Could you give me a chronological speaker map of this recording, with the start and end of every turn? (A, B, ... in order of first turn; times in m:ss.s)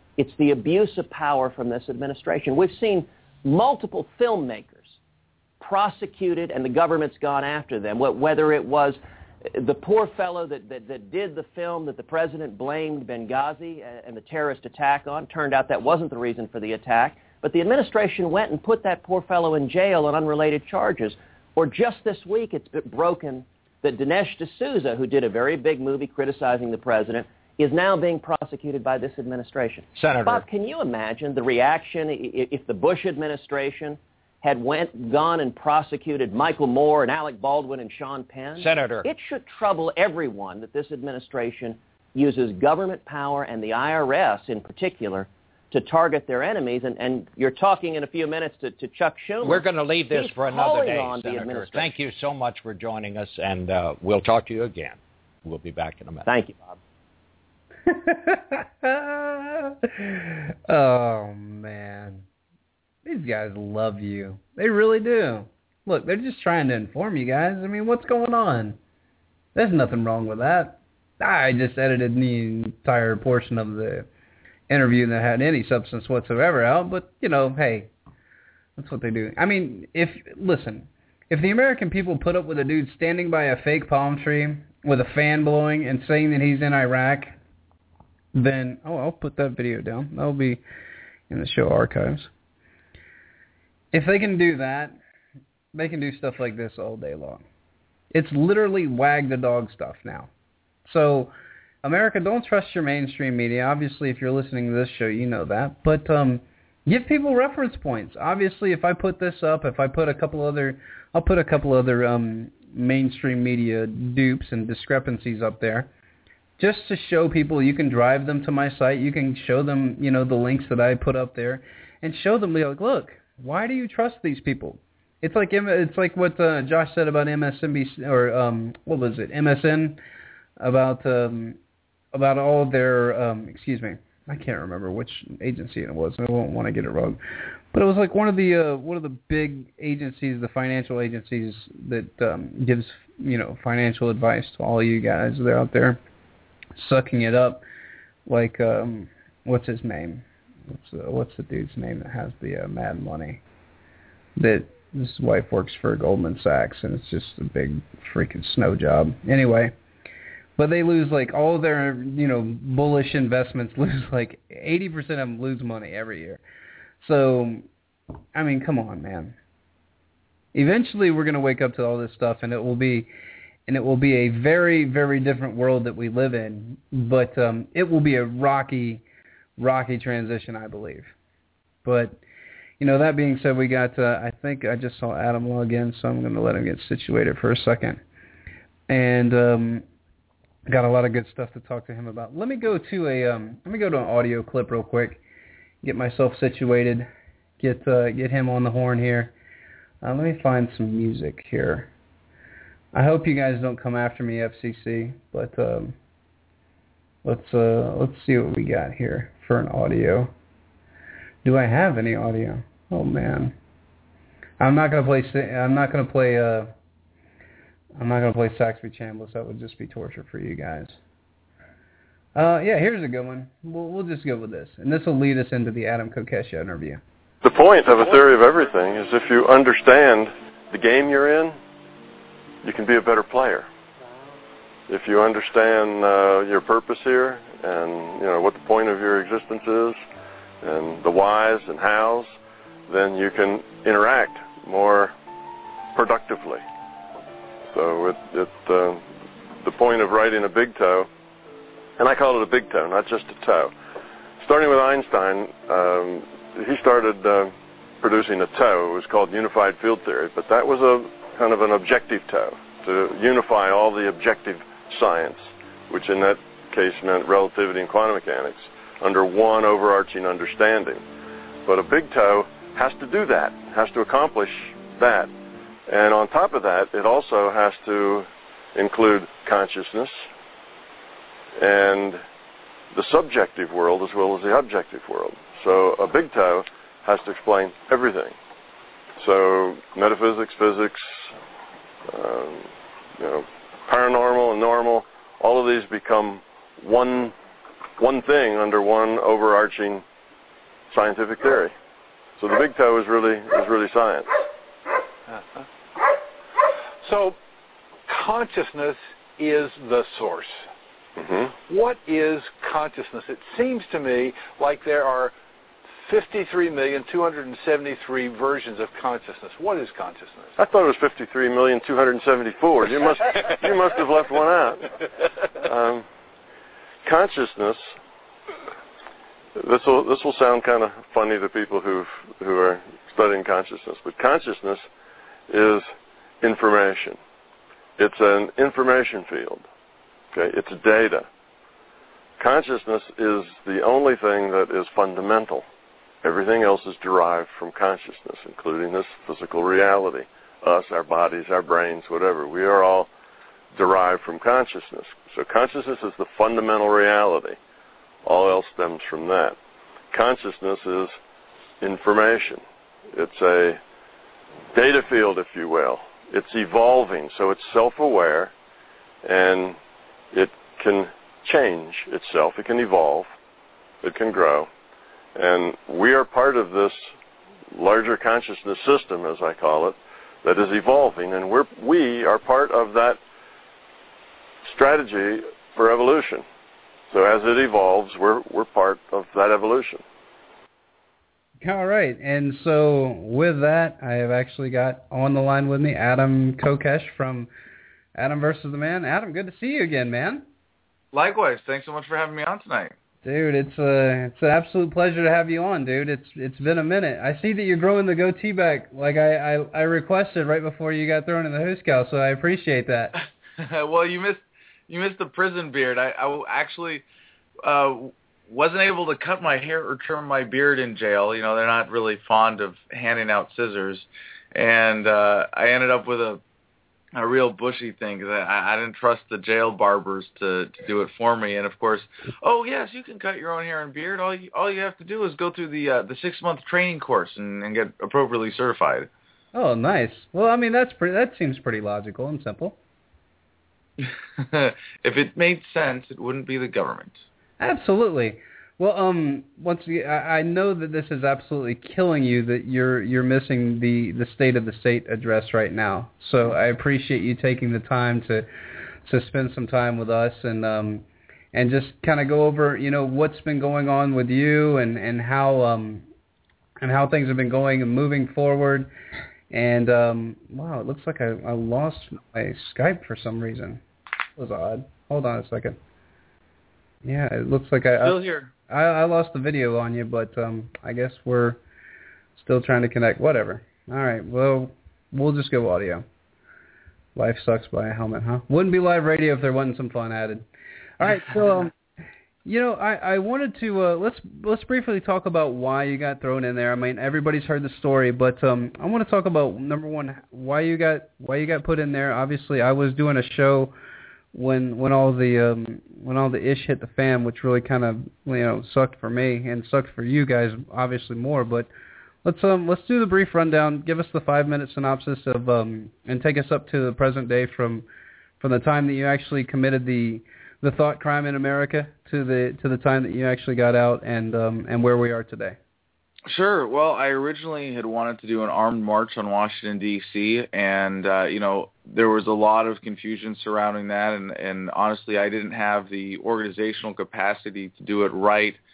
0:00.2-0:05.0 A
0:05.6-0:51.9 A
0:30.0-0:30.4 B
0:38.6-0:39.1 B
0:49.4-0:56.3 B
0:56.3-0:56.8 A
0:57.9-1:02.2 C
1:03.0-1:08.8 C
1:09.6-1:14.1 C
1:14.7-1:17.9 C
1:18.8-1:27.4 C
1:28.3-1:30.6 C
1:31.3-1:32.3 C
1:33.9-1:35.0 C
1:35.7-1:37.4 C
1:38.1-1:40.3 C
1:40.8-1:55.9 C
1:56.6-2:10.0 C
2:10.6-2:11.6 C
2:12.1-2:17.2 C
2:17.7-2:26.0 C
2:26.8-2:27.6 C
2:28.3-2:33.4 C
2:34.4-2:39.7 C
2:40.6-2:46.4 C
2:47.0-2:47.6 C
2:48.4-2:49.4 C
2:50.5-2:53.1 C
2:53.7-2:59.0 C
2:59.6-3:01.1 C
3:01.8-3:02.2 C
3:02.8-3:08.0 C
3:08.9-3:09.8 C
3:10.7-3:15.2 C
3:15.8-3:17.1 C
3:17.6-3:19.3 C
3:20.0-3:21.9 C
3:22.9-3:26.0 C
3:27.2-3:30.3 C
3:31.4-3:33.6 C
3:34.6-3:36.7 C
3:38.0-3:41.0 C
3:42.4-3:47.0 C
3:47.4-3:51.6 D
3:52.6-3:53.7 D
3:54.9-4:00.0 D
4:00.6-4:02.3 D
4:02.9-4:05.2 D
4:06.0-4:06.6 D
4:07.7-4:09.0 D
4:09.6-4:11.1 D
4:12.0-4:13.7 D
4:14.4-4:31.0 D
4:31.7-4:35.3 D
4:35.9-4:40.2 D
4:41.6-4:42.2 D
4:42.9-4:48.4 D
4:49.2-4:51.3 D
4:52.1-4:57.3 D
4:58.0-5:00.0 D
5:00.9-5:01.7 D
5:02.4-5:04.3 D
5:05.3-5:05.6 E
5:07.0-5:07.4 E
5:08.1-5:10.6 E
5:11.2-5:11.5 D
5:11.7-5:15.3 E
5:16.1-5:20.5 E
5:20.6-5:24.9 D
5:25.6-5:26.1 D
5:27.0-5:27.8 D
5:29.6-5:34.9 D
5:35.5-5:35.9 D
5:36.4-5:37.2 D
5:38.0-5:39.7 D
5:40.3-5:41.3 D
5:42.4-5:45.7 D
5:46.2-5:53.1 D
5:53.7-5:57.6 D
5:58.2-5:59.6 D
6:00.1-6:01.2 D
6:01.8-6:03.8 D
6:04.7-6:08.5 D
6:09.2-6:09.8 D
6:10.3-6:13.3 D
6:14.0-6:14.7 D
6:15.4-6:17.0 D
6:17.7-6:23.2 D
6:24.6-6:26.4 D
6:27.1-6:30.0 D
6:31.6-6:37.5 C
6:38.2-6:40.4 C
6:41.1-6:42.9 F
6:43.2-6:53.1 C
6:53.6-6:57.0 F
6:57.6-7:06.4 F
7:07.2-7:19.1 F
7:19.5-7:22.8 C
7:24.0-7:27.2 F
7:27.6-7:38.5 C
7:39.0-7:46.0 C
7:46.8-7:48.9 C
7:49.5-7:53.8 C
7:54.4-7:55.8 C
7:57.0-8:01.6 C
7:58.0-7:58.5 F
8:02.4-8:06.0 C
8:07.2-8:10.4 C
8:11.0-8:11.7 C
8:12.4-8:23.7 C
8:24.3-8:31.7 C
8:32.2-8:37.9 C
8:38.4-8:45.6 C
8:46.3-8:58.6 F